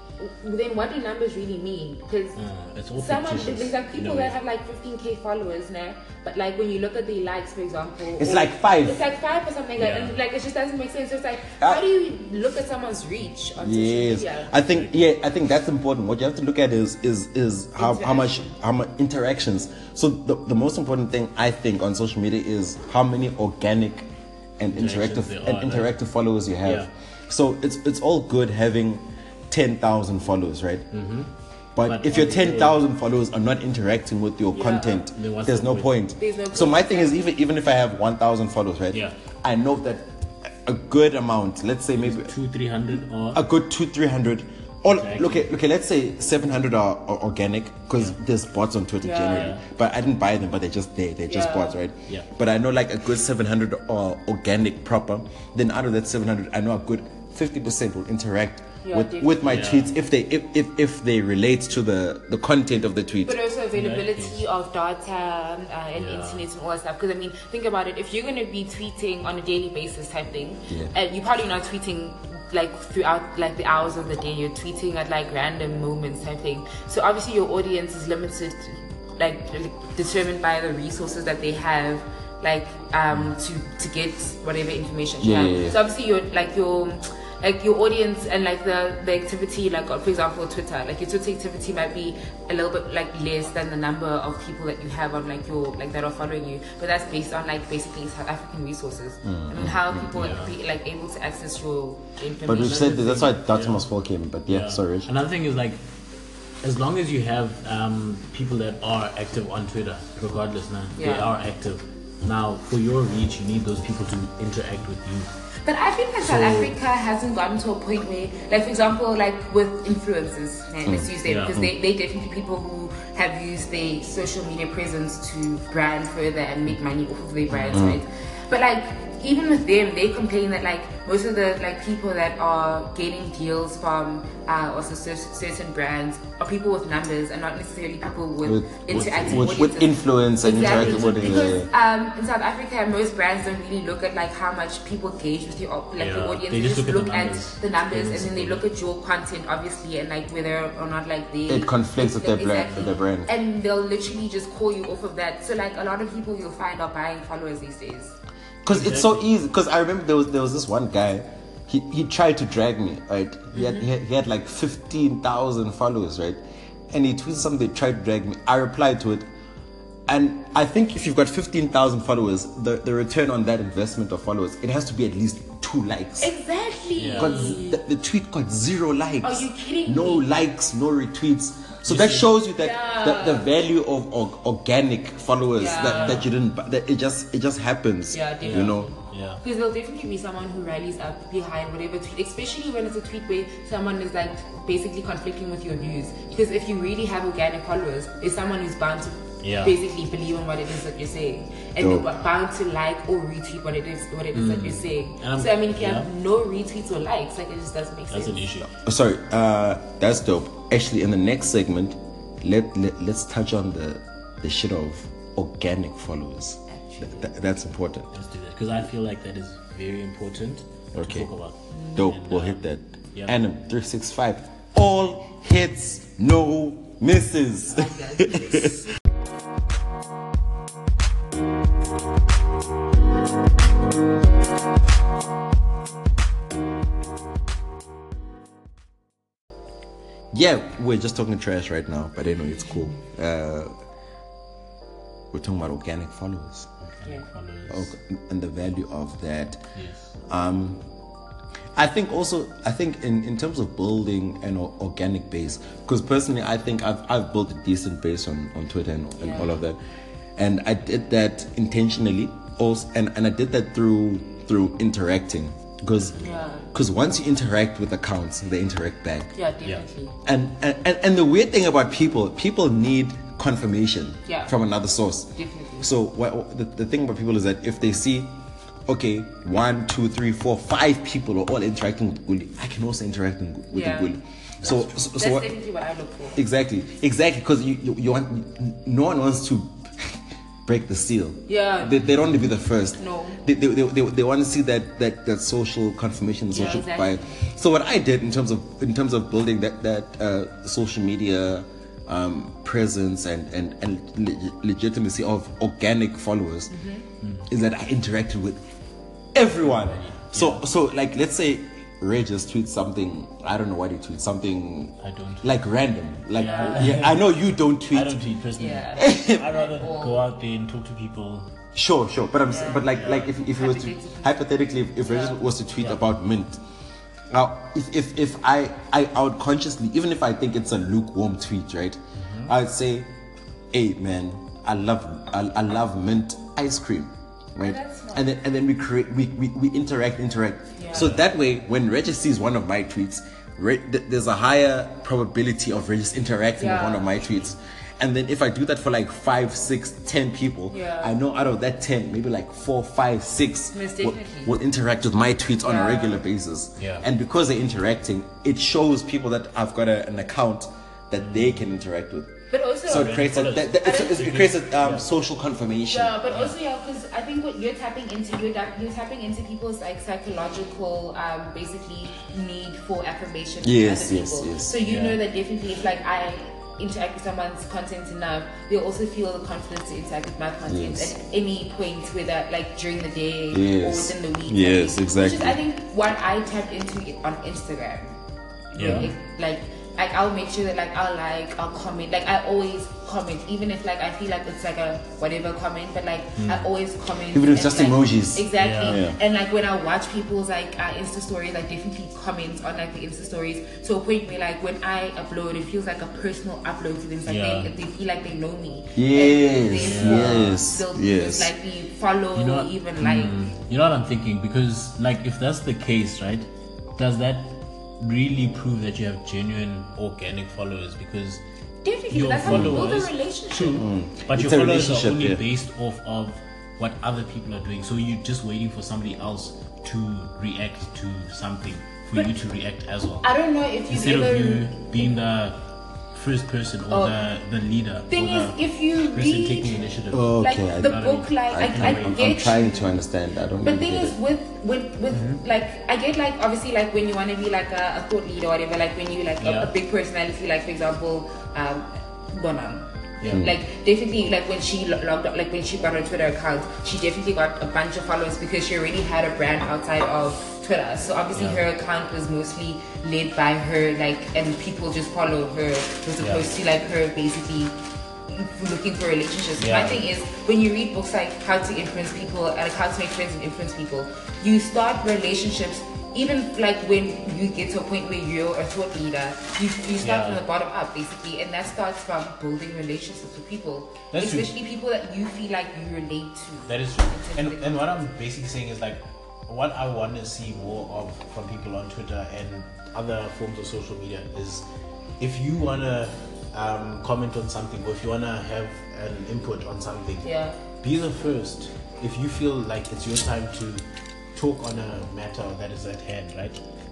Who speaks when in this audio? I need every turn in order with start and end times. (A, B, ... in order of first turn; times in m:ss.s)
0:00.2-0:02.4 A
0:02.4-0:04.3 B
0:03.0-0:14.5 A
0:08.2-0:09.0 C
0:09.8-0:10.2 B
0:13.6-0:30.9 C
0:14.7-0:15.0 B
0:17.8-0:18.5 A
0:24.7-0:25.9 B
0:26.6-0:26.9 B
0:30.9-0:32.8 B
0:31.8-0:42.3 C
0:34.5-0:35.1 A
0:35.1-0:36.0 B
0:36.2-0:37.2 A
0:42.0-0:43.4 B
0:43.3-1:03.4 C
0:44.8-0:45.5 B
0:49.0-0:49.5 A
0:49.3-0:49.6 B
0:51.3-0:51.8 A
0:58.8-0:59.5 A
0:59.4-0:59.9 B
1:03.2-1:43.3 A
1:03.7-1:04.4 B
1:05.9-1:06.5 B
1:25.2-1:25.8 C
1:39.2-1:40.3 C
1:40.1-1:40.6 B
1:42.4-1:45.1 C
1:42.8-1:43.9 B
1:44.5-1:45.8 B
1:46.6-1:55.3 B
1:51.0-1:51.3 A
1:55.6-2:38.2 A
1:56.2-1:56.7 B
2:00.9-2:01.7 C
2:01.2-2:01.6 B
2:07.5-2:07.8 B
2:07.7-2:08.0 C
2:18.4-2:21.7 C
2:18.9-2:19.6 B
2:20.5-2:21.6 B
2:26.0-2:28.6 B
2:31.5-2:33.3 C
2:32.6-2:32.9 B
2:38.6-2:49.2 C
2:38.7-2:39.3 B
2:43.5-2:43.9 A
2:50.1-2:56.3 C
2:56.2-2:57.8 A
2:57.0-2:57.5 B
2:57.2-3:08.9 C
2:59.2-3:00.2 A
3:01.8-3:02.3 B
3:02.6-3:03.4 A
3:05.5-3:06.2 A
3:05.8-3:06.3 B
3:08.1-3:28.4 A
3:08.4-3:09.4 B
3:19.4-3:19.7 B
3:21.8-3:22.1 C
3:24.3-3:26.1 B
3:28.1-3:28.7 B
3:28.8-3:38.1 C
3:36.7-3:37.3 A
3:38.1-3:42.6 B
3:40.9-3:41.3 C
3:41.7-3:42.1 A
3:42.0-3:48.8 C
3:47.7-3:48.9 A
4:00.3-4:03.7 C
4:05.3-4:06.7 C
4:06.8-4:07.9 B
4:07.7-4:09.6 C
4:09.7-4:10.1 B
4:10.3-4:10.8 C
4:11.8-4:19.8 C
4:19.2-4:19.6 A
4:20.4-4:29.3 C
4:26.2-4:26.7 A
4:29.4-4:30.1 A
4:30.2-4:38.3 C
4:34.3-4:34.5 A
4:35.4-4:35.9 A
4:38.9-4:45.5 C
4:43.7-4:44.2 A
4:44.6-4:44.9 B
4:45.1-4:46.4 A
4:46.4-5:06.7 C
4:51.5-4:52.0 A
4:53.0-4:53.4 A
4:56.5-4:57.3 A
5:06.7-5:07.1 A
5:07.2-5:07.5 B
5:07.5-5:08.6 C
5:09.3-5:18.2 C
5:09.7-5:10.6 B
5:15.0-5:15.5 B
5:16.3-5:17.2 B
5:16.4-5:17.0 A
5:17.9-5:21.5 B
5:18.6-5:20.2 A
5:19.0-5:19.6 C
5:21.7-5:26.6 C
5:22.5-5:24.4 A
5:22.9-5:23.3 B
5:25.1-5:25.4 A
5:27.3-5:33.1 C
5:32.2-5:32.5 B
5:33.7-6:06.2 C
5:37.6-5:38.3 A
5:40.8-5:41.2 A
5:46.6-5:47.2 A
5:50.7-5:51.1 A
5:53.7-5:54.5 A
5:55.6-5:56.2 A
5:56.8-5:57.1 B
6:01.2-6:01.5 B
6:02.5-6:04.2 A
6:02.9-6:05.1 B
6:05.9-6:28.2 A
6:13.6-6:14.7 C
6:14.8-6:15.2 B
6:20.7-6:21.1 C
6:23.5-6:25.6 C
6:28.7-6:53.3 A
6:28.8-6:29.1 B
6:36.4-6:36.7 B
6:37.3-6:39.2 C
6:38.6-6:39.0 B
6:47.2-6:47.8 B
6:48.9-6:51.5 C
6:49.7-6:50.6 B
6:52.3-7:01.4 B
7:01.8-7:03.9 A
7:02.1-7:13.3 B
7:02.4-7:02.8 C
7:03.8-7:05.4 C
7:13.2-7:15.2 A
7:13.9-7:22.3 B
7:16.9-7:17.2 A
7:18.1-7:19.8 A
7:20.1-7:24.2 C
7:20.4-7:22.9 A
7:23.6-7:47.7 A
7:25.1-7:25.4 B
7:29.4-7:29.7 B
7:33.3-7:33.6 C
7:41.3-7:41.7 B
7:46.2-7:46.5 B
7:48.3-8:07.8 A
7:49.6-7:50.0 B
8:00.0-8:00.4 B
8:04.1-8:04.5 B
8:06.7-8:14.7 B
8:15.2-8:20.2 B
8:20.2-8:20.6 A
8:20.8-8:26.6 B